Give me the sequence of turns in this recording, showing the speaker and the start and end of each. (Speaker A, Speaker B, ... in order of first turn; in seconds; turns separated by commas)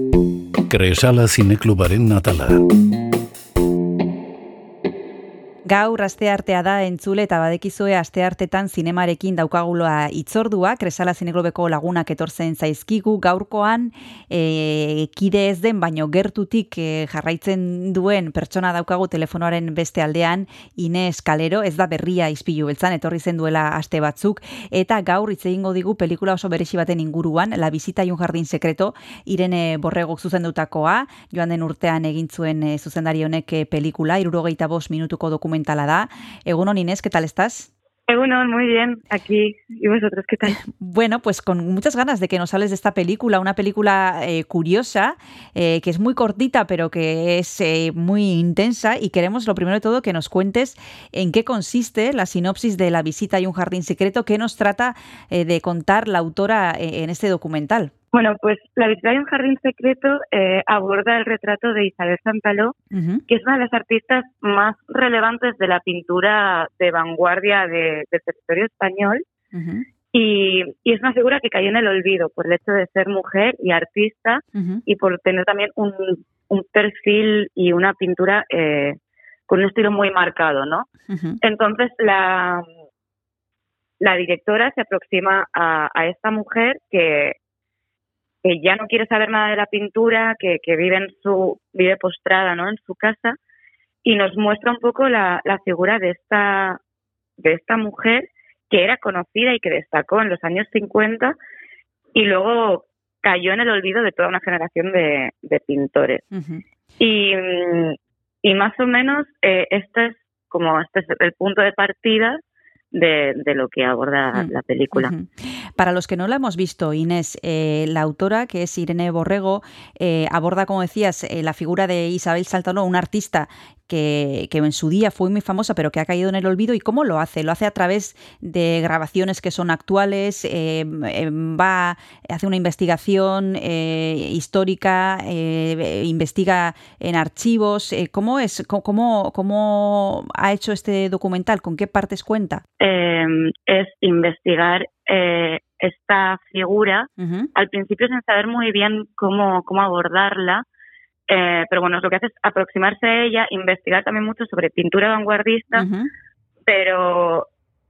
Speaker A: 0.7-2.6, Speaker B: 5.7-37.7, Speaker C: 38.1-40.6, Speaker B: 40.5-57.9, Speaker C: 58.1-62.7, Speaker B: 62.9-63.2, Speaker C: 63.3-69.2, Speaker B: 69.5-69.8, Speaker C: 70.1-79.0, Speaker B: 74.5-74.8, Speaker C: 79.5-80.9, Speaker B: 81.1-81.4, Speaker C: 81.4-82.6, Speaker C: 84.0-87.4, Speaker C: 88.4-93.4, Speaker C: 94.0-96.8, Speaker C: 97.4-101.3, Speaker C: 102.1-106.2, Speaker B: 106.3-106.6, Speaker C: 107.0-112.4, Speaker C: 112.9-115.1, Speaker B: 114.3-142.6, Speaker C: 142.8-150.6, Speaker B: 147.2-147.5, Speaker C: 151.3-155.9, Speaker B: 155.7-156.1, Speaker C: 156.7-157.5